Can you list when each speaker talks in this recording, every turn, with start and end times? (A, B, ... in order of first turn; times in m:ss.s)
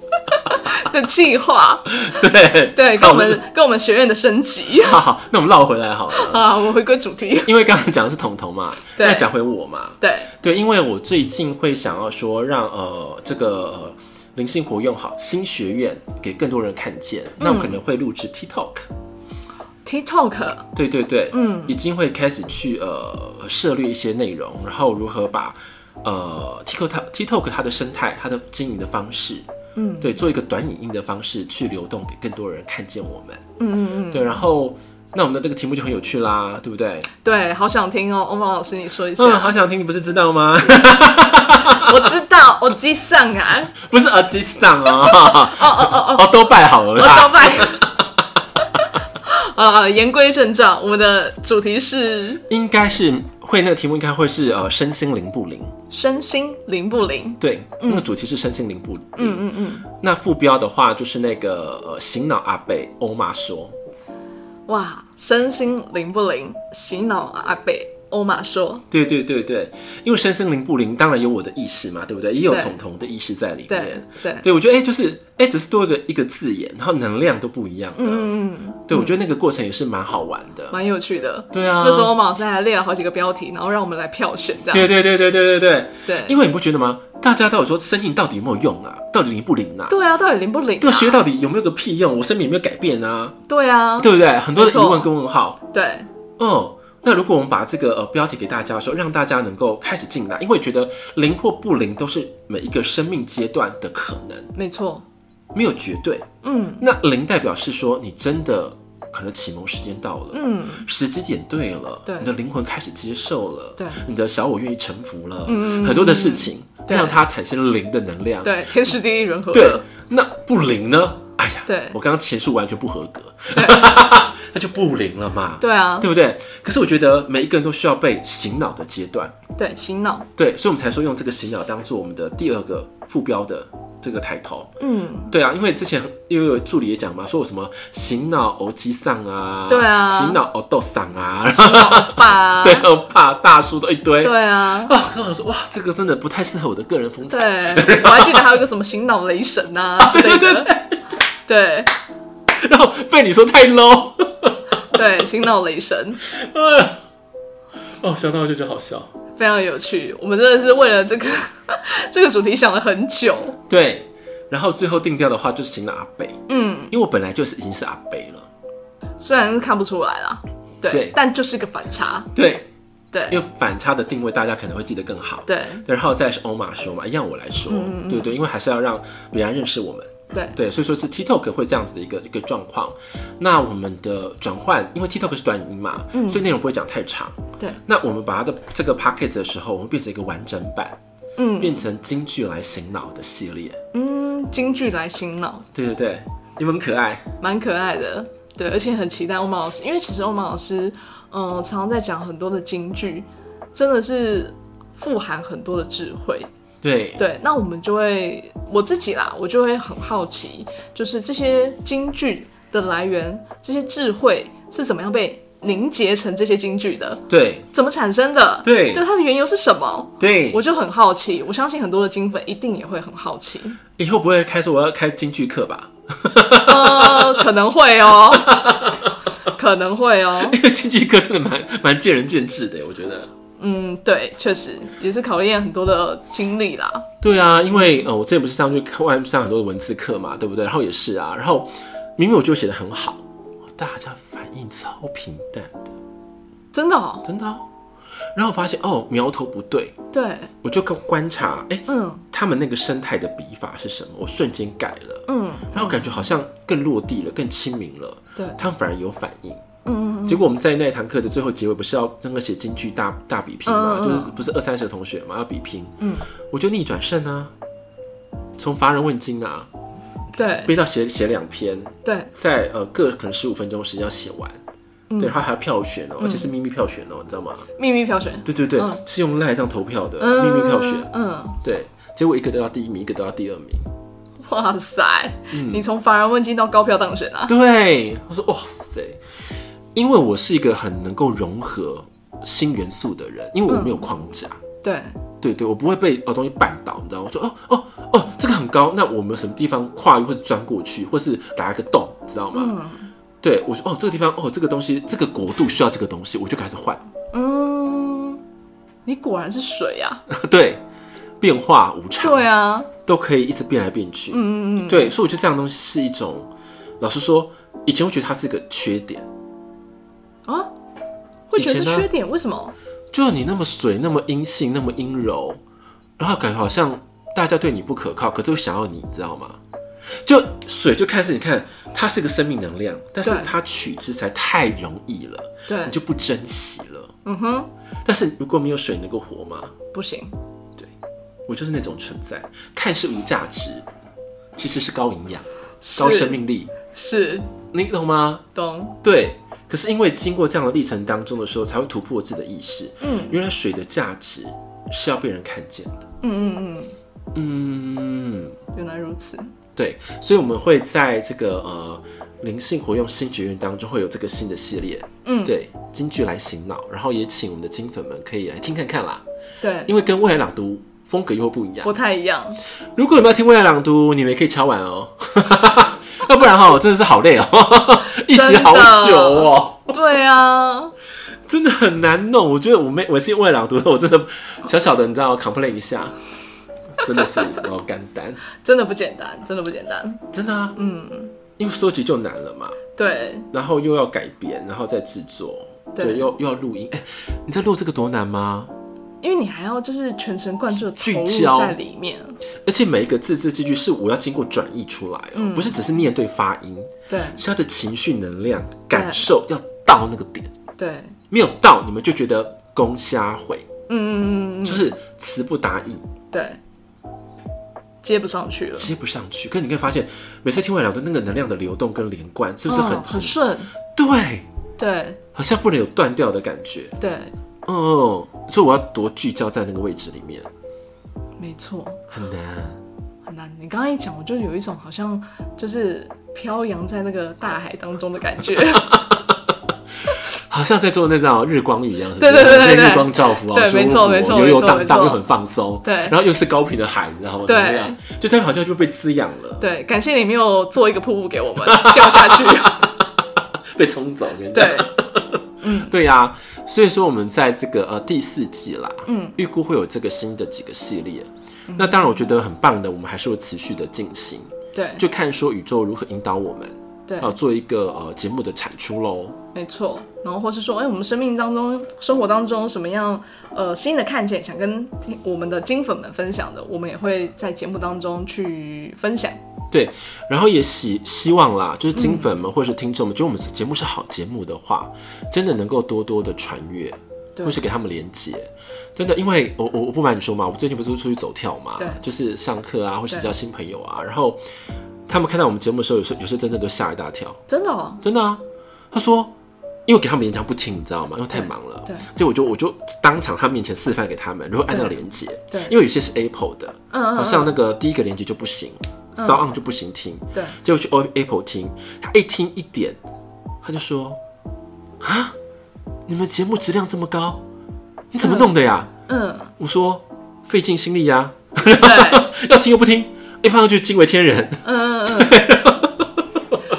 0:00.3-0:02.0 A
0:01.9-0:03.4 B
0:02.7-0:05.0 A
0:04.8-0:06.5 B
0:06.1-0:07.5 A
0:07.4-0:18.9 B
0:09.0-0:09.3 A
0:10.0-0:10.3 A
0:17.4-0:17.8 A
0:19.8-0:20.7 A
0:20.8-0:29.5 B
0:21.3-0:21.8 A
0:29.8-0:30.2 A
0:30.0-0:33.4 B
0:33.6-0:34.4 A
0:34.1-0:37.1 B
0:37.2-0:39.6 A
0:39.2-0:42.0 B
0:41.7-0:43.7 A
0:43.8-0:48.1 B
0:44.9-0:47.9 A
0:48.8-0:52.4 A
0:52.5-0:55.8 B
0:55.9-0:58.1 A
0:57.4-1:03.8 B
0:59.2-0:59.9 A
1:04.7-1:08.9 A
1:08.9-1:20.8 B
1:12.5-1:12.8 A
1:13.7-1:14.5 A
1:18.0-1:19.2 A
1:20.7-1:24.9 A
1:21.5-1:22.1 B
1:24.7-1:30.0 B
1:26.1-1:26.4 A
1:29.9-1:31.2 A
1:30.8-1:33.4 B
1:33.5-1:35.1 A
1:34.0-1:35.6 B
1:35.7-1:36.1 A
1:36.4-1:44.5 B
1:44.6-1:45.1 A
1:45.5-1:58.6 B
1:46.4-1:46.8 A
1:50.3-1:50.9 A
1:52.1-1:52.3 A
1:53.8-1:54.0 A
1:55.5-1:57.2 A
1:58.4-1:59.8 A
1:59.5-2:09.3 B
2:01.7-2:02.0 A
2:03.6-2:03.9 A
2:05.6-2:06.1 A
2:09.6-2:10.3 A
2:10.4-2:14.7 B
2:14.8-2:15.3 A
2:15.3-2:28.6 B
2:19.7-2:20.4 A
2:21.5-2:22.9 A
2:24.2-2:24.9 A
2:27.3-2:30.7 A
2:30.0-2:31.0 B
2:31.5-2:31.9 A
2:32.6-2:34.6 B
2:34.9-2:36.2 A
2:36.2-2:37.0 B
2:38.0-2:39.1 B
2:39.4-2:43.6 A
2:43.7-2:48.5 B
2:46.5-2:46.9 A
2:49.2-2:52.3 A
2:50.9-2:51.2 B
2:52.4-2:52.7 B
2:53.1-2:53.4 A
2:53.3-3:11.0 B
2:55.5-2:55.8 A
2:57.7-2:58.4 A
3:00.3-3:00.6 A
3:06.1-3:06.4 A
3:11.4-3:11.9 A
3:11.6-3:13.8 B
3:13.9-3:15.7 A
3:15.7-3:17.3 B
3:17.4-3:26.5 A
3:26.8-3:27.2 B
3:27.2-3:43.8 A
3:37.3-3:37.7 B
3:38.6-3:39.0 B
3:40.2-3:40.6 B
3:44.0-3:47.4 B
3:46.6-3:48.6 A
3:48.2-3:49.2 B
3:49.5-3:50.6 A
3:50.4-3:53.3 B
3:53.6-3:57.1 A
3:57.2-4:05.9 B
3:57.7-3:58.0 A
4:06.7-4:07.3 A
4:07.2-4:07.7 B
4:08.4-4:10.0 B
4:10.1-4:10.5 A
4:10.6-4:19.6 B
4:11.9-4:12.2 A
4:15.3-4:16.3 A
4:19.8-4:20.4 A
4:20.3-4:27.5 B
4:23.7-4:24.4 A
4:26.0-4:26.3 A
4:28.6-4:29.7 B
4:30.3-4:30.7 A
4:30.6-4:34.6 B
4:32.0-4:32.3 A
4:35.1-4:35.4 A
4:35.2-4:37.7 B
4:36.2-4:36.5 A
4:37.8-4:39.0 A
4:38.4-4:41.1 B
4:40.2-4:41.6 A
4:41.6-4:43.9 B
4:44.4-4:47.5 A
4:45.5-4:45.8 B
4:47.5-4:49.2 B
4:50.0-4:54.6 B
4:53.7-4:54.1 A
4:54.8-4:55.2 A
4:55.4-5:02.8 B
5:02.5-5:03.1 A
5:03.4-5:07.0 B
5:07.3-5:08.4 A
5:09.0-5:10.2 A
5:10.3-5:10.8 B
5:11.4-5:19.3 B
5:12.2-5:12.9 A
5:14.3-5:15.2 A
5:20.5-5:20.7 A
5:21.5-5:22.8 A
5:21.6-5:22.1 B
5:23.1-5:25.6 B
5:26.2-5:29.6 B
5:30.2-5:37.1 B
5:33.2-5:33.5 A
5:35.7-5:36.0 A
5:37.2-5:37.7 A
5:38.0-5:39.7 B
5:39.9-5:40.3 A
5:41.5-5:43.9 B
5:44.6-5:46.7 B
5:45.8-5:47.5 A
5:47.7-5:48.4 B
5:48.6-5:49.0 A
5:49.0-5:56.0 B
5:53.0-5:53.4 A
5:56.2-5:57.0 A
5:57.4-5:58.6 B
5:58.7-5:59.5 A
5:59.8-6:09.2 B
6:05.2-6:05.5 A
6:09.6-6:09.9 A
6:09.9-6:11.9 B
6:11.8-6:12.6 A
6:13.0-6:19.9 B
6:18.3-6:20.9 A
6:21.5-6:26.2 B
6:27.0-6:28.4 B
6:27.1-6:27.6 A
6:28.6-6:30.2 A
6:30.3-6:30.8 B
6:30.8-6:31.3 A
6:31.6-6:32.8 B
6:33.0-6:33.5 A
6:33.5-6:38.7 B
6:36.0-6:36.3 A
6:39.2-6:42.4 A
6:41.0-6:41.8 B
6:42.6-6:50.5 B
6:45.3-6:45.8 A
6:47.1-6:47.4 A
6:48.9-6:49.3 A
6:50.8-6:51.2 A
6:51.3-6:53.7 B
6:53.9-6:54.9 A
6:54.6-6:56.0 B
6:56.3-6:56.6 A
6:58.0-6:58.9 A
6:58.8-7:03.4 B
7:02.7-7:03.7 A
7:03.9-7:04.5 B
7:04.8-7:05.2 A
7:05.4-7:07.0 B
7:07.0-7:07.3 A
7:07.7-7:10.5 B
7:11.4-7:12.0 A
7:12.1-7:12.8 B
7:13.2-7:18.9 A
7:18.7-7:19.4 B
7:20.1-7:29.7 B
7:22.2-7:25.3 A
7:25.8-7:26.2 A
7:27.5-7:28.0 A
7:29.6-7:32.9 A
7:31.6-7:33.1 B
7:33.8-7:49.4 B
7:34.5-7:35.0 A
7:35.6-7:35.9 A
7:39.1-7:39.4 A
7:41.7-7:42.2 A
7:44.7-7:45.0 A
7:47.1-7:47.4 A
7:49.5-7:59.4 A
7:59.7-8:14.4 B
8:01.9-8:02.3 A
8:15.1-8:17.4 B
8:17.5-8:18.0 A
8:18.0-8:19.3 B
8:19.9-8:33.0 B
8:21.3-8:22.1 A
8:24.7-8:25.8 A
8:26.9-8:27.6 A
8:29.2-8:29.6 A
8:33.6-8:34.2 B
8:35.0-8:35.4 B
8:36.1-8:37.4 B
8:38.1-8:38.9 B
8:38.2-8:39.5 A
8:39.6-8:46.6 B
8:41.7-8:42.2 A
8:44.6-8:45.4 A